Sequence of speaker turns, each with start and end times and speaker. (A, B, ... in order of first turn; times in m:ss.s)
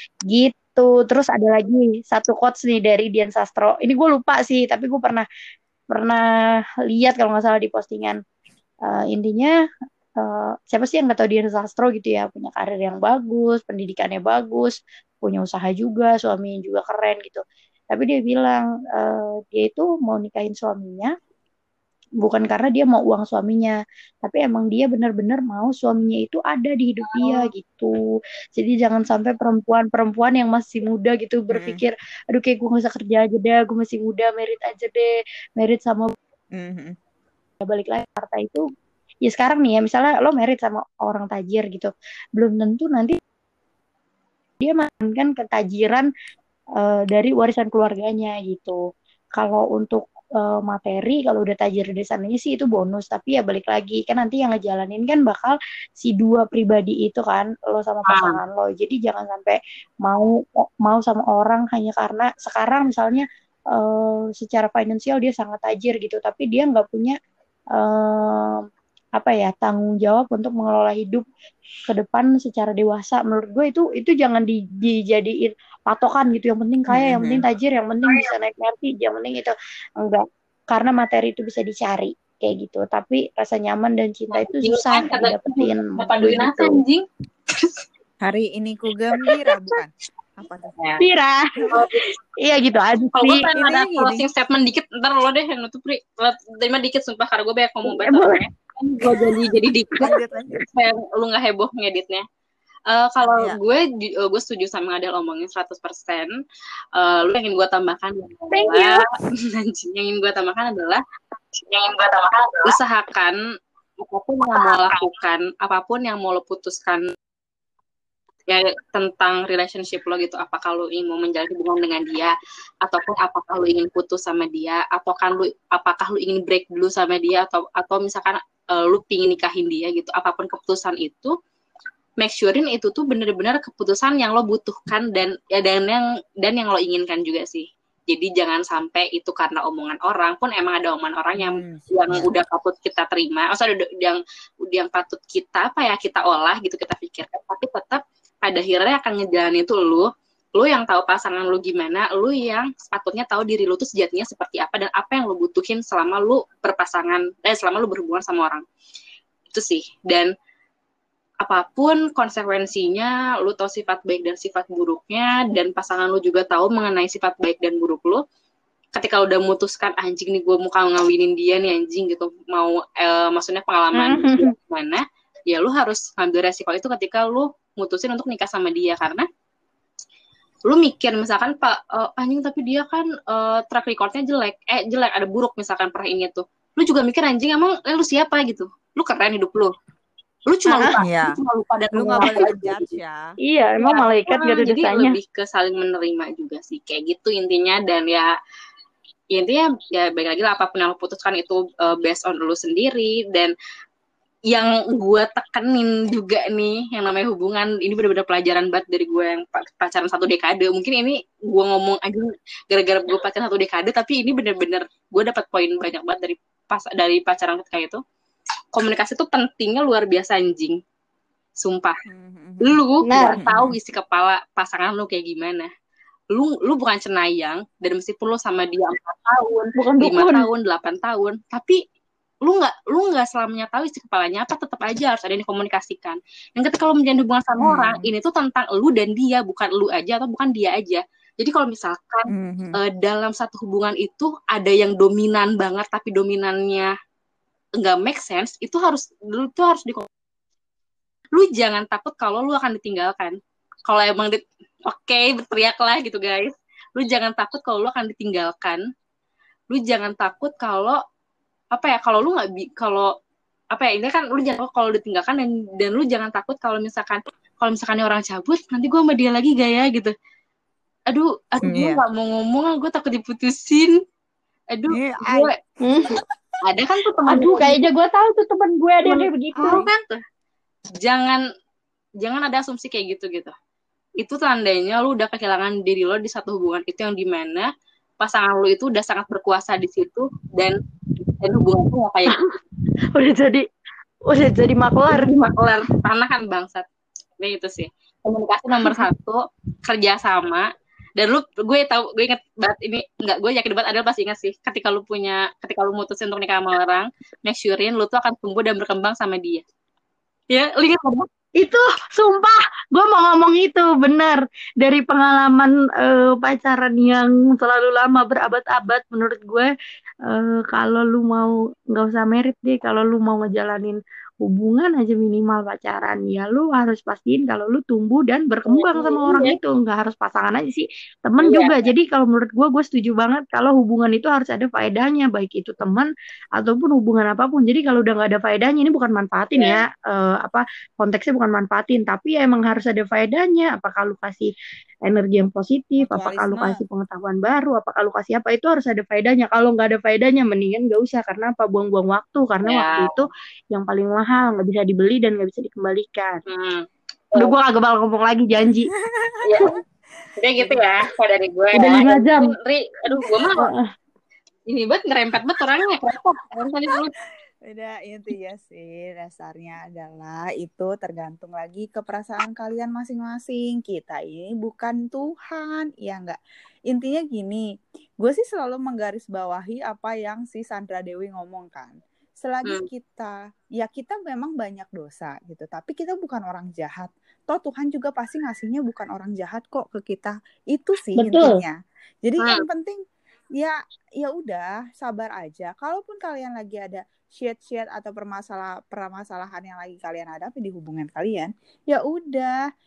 0:00.3-0:05.2 A
0:05.9-0:06.2 A
0:06.9-0:08.2 A
0:08.9-0:09.5 A
0:10.2-0:21.1 A
0:22.2-0:27.9 A
0:27.0-0:27.5 B
0:28.6-0:36.1 A
0:31.5-0:31.8 C
0:36.6-0:37.0 C
0:37.6-0:38.6 A
0:39.2-0:43.2 A
0:44.6-0:46.1 A
0:46.8-0:48.8 A
0:49.4-1:07.2 A
0:58.1-0:58.4 B
1:07.8-1:08.6 A
1:09.2-1:11.2 A
1:11.9-1:26.8 A
1:16.9-1:17.5 C
1:24.3-1:27.8 B
1:28.2-1:30.7 C
1:30.8-1:31.0 B
1:31.0-1:31.9 A
1:31.7-1:32.0 B
1:32.4-1:33.5 A
1:33.2-1:40.1 B
1:33.6-1:34.3 C
1:37.8-1:38.4 A
1:39.1-1:39.5 A
1:40.0-1:40.6 C
1:40.7-1:42.2 B
1:42.9-1:46.4 B
1:43.3-1:43.6 C
1:47.0-1:51.0 B
1:48.5-1:49.1 A
1:51.7-1:53.4 B
1:52.3-1:52.7 A
1:54.0-1:57.1 B
1:54.5-1:55.0 A
1:58.5-2:11.4 B
2:12.2-2:38.6 B
2:21.4-2:22.3 C
2:39.5-2:40.3 B
2:41.4-2:48.2 B
2:49.0-2:59.3 B
2:53.9-2:54.5 A
3:00.7-3:09.7 B
3:10.5-3:12.9 B
3:10.7-3:11.0 A
3:11.0-3:11.4 C
3:11.9-3:13.3 C
3:13.4-3:15.2 A
3:13.8-3:18.3 B
3:19.3-3:23.5 B
3:24.5-3:38.0 B
3:38.7-3:40.8 B
3:41.6-3:42.0 B
3:42.1-3:42.8 C
3:42.6-3:45.7 B
3:43.0-3:43.4 A
3:43.4-3:43.8 C
3:46.3-3:51.8 B
3:49.8-3:50.5 A
3:52.5-4:06.9 B
3:57.6-3:58.1 C
4:02.3-4:02.8 C
4:07.8-4:10.1 B
4:11.4-4:18.8 B
4:19.7-4:21.0 B
4:21.7-4:23.1 B
4:23.7-4:30.2 B
4:31.1-4:34.0 B
4:31.6-4:32.0 C
4:34.7-4:35.6 B
4:34.9-4:35.5 C
4:35.8-4:36.1 A
4:36.6-4:37.8 B
4:37.3-4:39.8 A
4:39.1-4:40.2 B
4:39.5-4:39.9 C
4:41.0-4:41.4 B
4:42.2-4:43.5 B
4:44.2-4:52.4 B
4:52.3-4:52.6 A
4:53.2-4:53.6 A
4:54.3-4:55.6 A
4:55.1-4:56.9 B
4:57.4-5:09.6 B
4:58.8-4:59.1 A
5:10.5-5:11.3 B
5:11.6-5:19.7 A
5:20.3-5:44.5 A
5:28.7-5:29.6 B
5:31.4-5:31.9 B
5:39.6-5:39.8 B
5:45.1-5:56.4 A
5:46.0-5:46.8 C
5:52.6-5:53.3 B
5:56.5-5:57.6 B
5:57.4-5:58.9 A
5:59.0-5:59.4 C
5:59.4-5:59.8 B
6:00.4-6:03.7 B
6:00.6-6:00.9 C
6:01.7-6:02.5 A
6:03.6-6:03.9 A
6:04.7-6:07.1 B
6:07.6-6:16.4 C
6:16.9-6:17.6 C
6:18.2-6:33.0 C
6:31.2-6:31.6 A
6:32.4-6:32.6 B
6:33.6-6:42.6 C